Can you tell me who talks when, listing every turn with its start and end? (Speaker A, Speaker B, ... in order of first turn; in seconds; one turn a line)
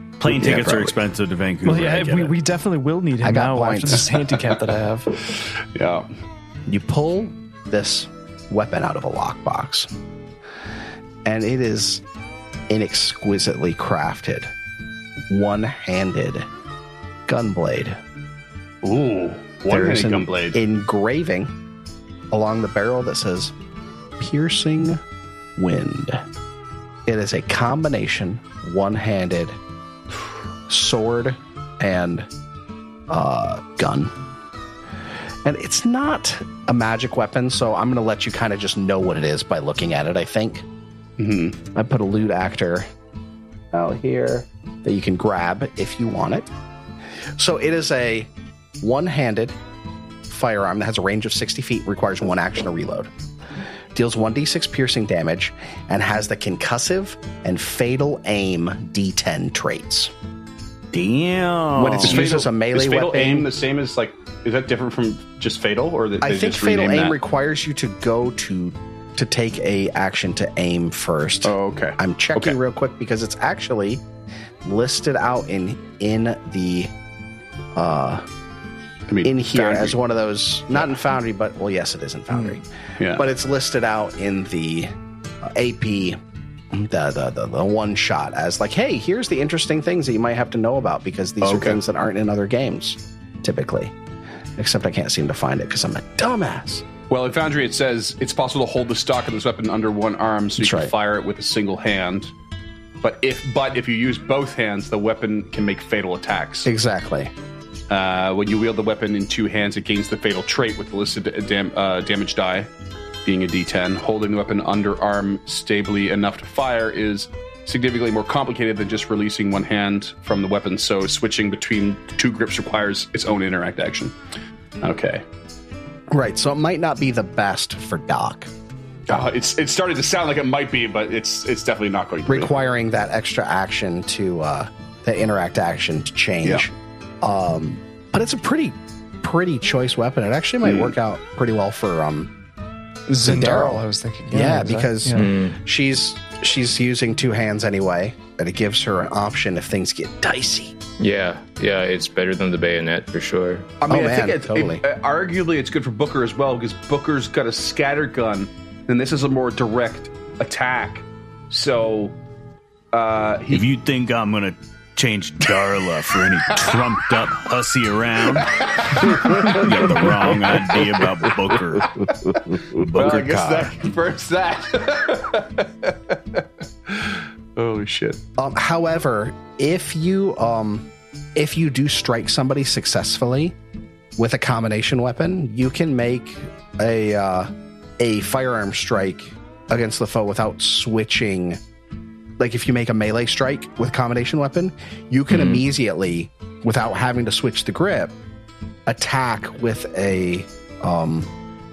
Speaker A: 0.2-2.3
Speaker B: 0.3-0.9
Speaker C: 1.6-5.1
Speaker B: 3.2-4.1
Speaker D: 5.4-6.1
Speaker B: 6.7-9.9
Speaker B: 11.2-12.0
Speaker B: 12.7-14.5
Speaker B: 15.3-16.5
Speaker B: 17.3-18.0
Speaker D: 18.8-20.6
Speaker B: 19.7-21.5
Speaker B: 22.3-23.5
Speaker B: 24.2-25.0
Speaker B: 25.6-26.2
Speaker B: 27.1-29.6
Speaker B: 30.7-32.3
Speaker B: 33.1-34.1
Speaker B: 35.4-40.6
Speaker D: 41.2-41.6
Speaker B: 41.7-42.9
Speaker B: 43.7-46.5
Speaker B: 47.4-49.6
Speaker B: 50.3-53.1
Speaker B: 53.9-60.1
Speaker A: 60.9-62.2
Speaker B: 61.7-63.5
Speaker D: 62.0-67.2
Speaker B: 66.2-74.0
Speaker D: 71.4-72.6
Speaker B: 74.6-76.9
Speaker B: 77.7-78.2
Speaker D: 79.1-80.0
Speaker B: 79.2-84.9
Speaker D: 83.0-83.2
Speaker B: 85.4-86.2
Speaker B: 86.7-93.9
Speaker D: 91.4-91.8
Speaker B: 94.6-96.8
Speaker D: 97.1-102.3
Speaker B: 100.6-100.9
Speaker D: 103.0-106.7
Speaker B: 106.6-107.3
Speaker D: 107.9-112.7
Speaker D: 113.2-124.2
Speaker D: 124.8-125.2
Speaker B: 126.1-128.5
Speaker D: 129.1-132.5
Speaker B: 132.3-142.3
Speaker D: 140.6-140.9
Speaker C: 143.1-145.3
Speaker B: 143.2-150.8
Speaker E: 145.1-145.6
Speaker E: 151.0-153.7
Speaker D: 153.8-162.2
Speaker B: 153.9-154.8
Speaker D: 162.9-163.6
Speaker A: 163.5-172.1
Speaker D: 168.4-172.1
Speaker A: 172.7-173.7
Speaker D: 172.9-178.2
Speaker B: 172.9-173.5
Speaker B: 178.4-183.6
Speaker B: 184.2-191.6
Speaker B: 192.4-198.2
Speaker E: 195.3-195.6
Speaker B: 198.9-201.3